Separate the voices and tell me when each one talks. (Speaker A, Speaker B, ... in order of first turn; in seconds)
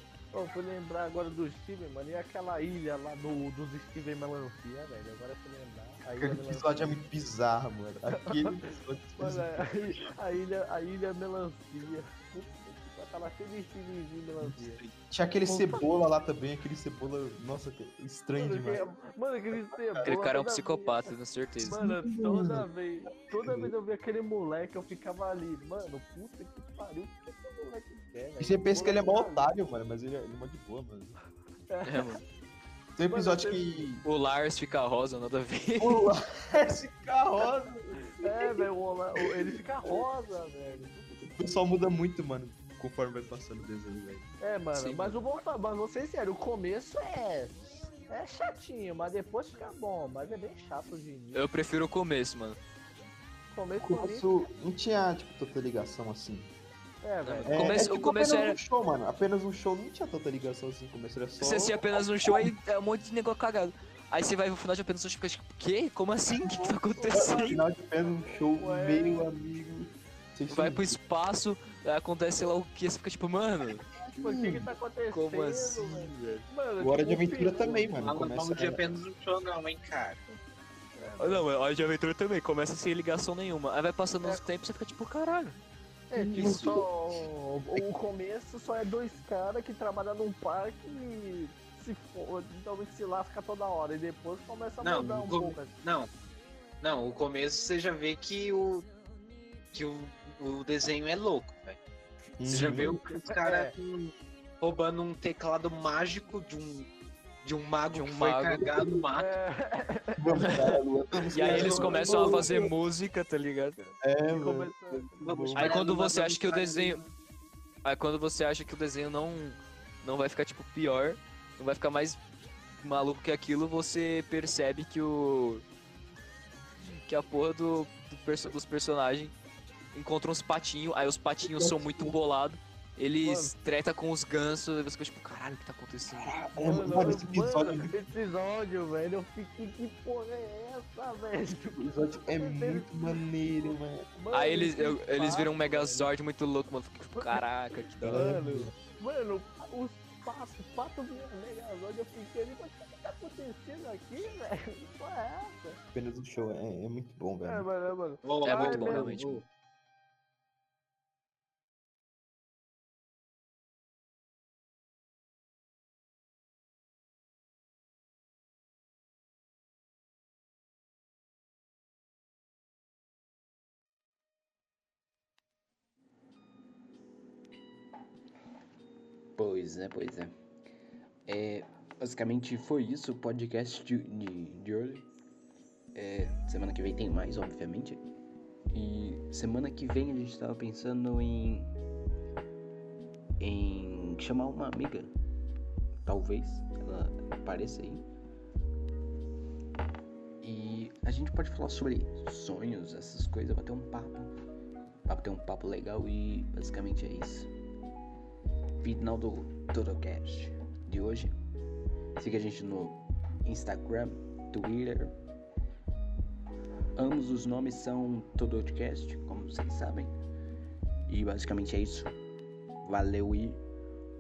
Speaker A: 0.3-7.0, 8.1-14.8, 15.4-15.9, 18.4-29.5, 31.7-32.1, 33.1-33.9, 38.2-41.3, 44.4-51.5, 53.5-54.3, 57.0-57.8, 66.9-69.2, 74.2-77.9, 81.0-81.5, 86.1-95.7, 103.3-103.7, 109.1-110.7, 111.6-112.5, 113.8-115.3, 133.2-133.5, 136.6-142.9, 143.6-146.1, 148.1-155.8, 157.4-159.2
Speaker B: 6.2-10.1, 14.4-18.9, 19.5-20.2, 21.8-22.7, 23.3-23.7, 28.4-31.2, 33.0-34.0, 35.8-38.7, 41.3-44.3, 53.8-56.5, 57.5-62.5, 66.3-71.0, 74.1-74.7, 76.8-78.9, 86.1-86.9, 102.4-103.0, 108.6-109.0, 110.2-112.7, 114.0-115.8, 131.4-132.2, 136.1-137.9, 141.7-144.1, 148.0-148.7, 155.9-157.7
Speaker C: 20.0-21.9, 31.9-32.2, 34.0-36.1, 44.7-45.2, 51.3-52.6, 57.2-58.6, 61.4-67.6, 70.5-73.9, 75.1-76.5, 81.2-85.6, 86.4-86.8, 102.5-102.9, 107.9-108.7, 110.4-110.8, 111.3-113.8, 115.5-117.0, 117.8-122.2, 122.8-125.6, 126.9-129.3, 129.9-136.4, 144.3-148.4, 158.4-159.4
Speaker D: 78.0-80.2, 94.8-96.1, 96.8-98.9, 99.7-101.8, 102.5-106.9, 107.4-109.3, 111.4-112.3, 115.2-117.1, 158.2-159.4
Speaker E: 179.4-180.3, 181.3-185.0, 185.9-188.0, 188.7-191.7, 193.4-195.1, 196.1-198.1, 200.4-204.3, 205.1-207.5, 208.8-211.3, 212.2-215.1, 216.9-220.1, 221.1-222.2, 222.8-223.6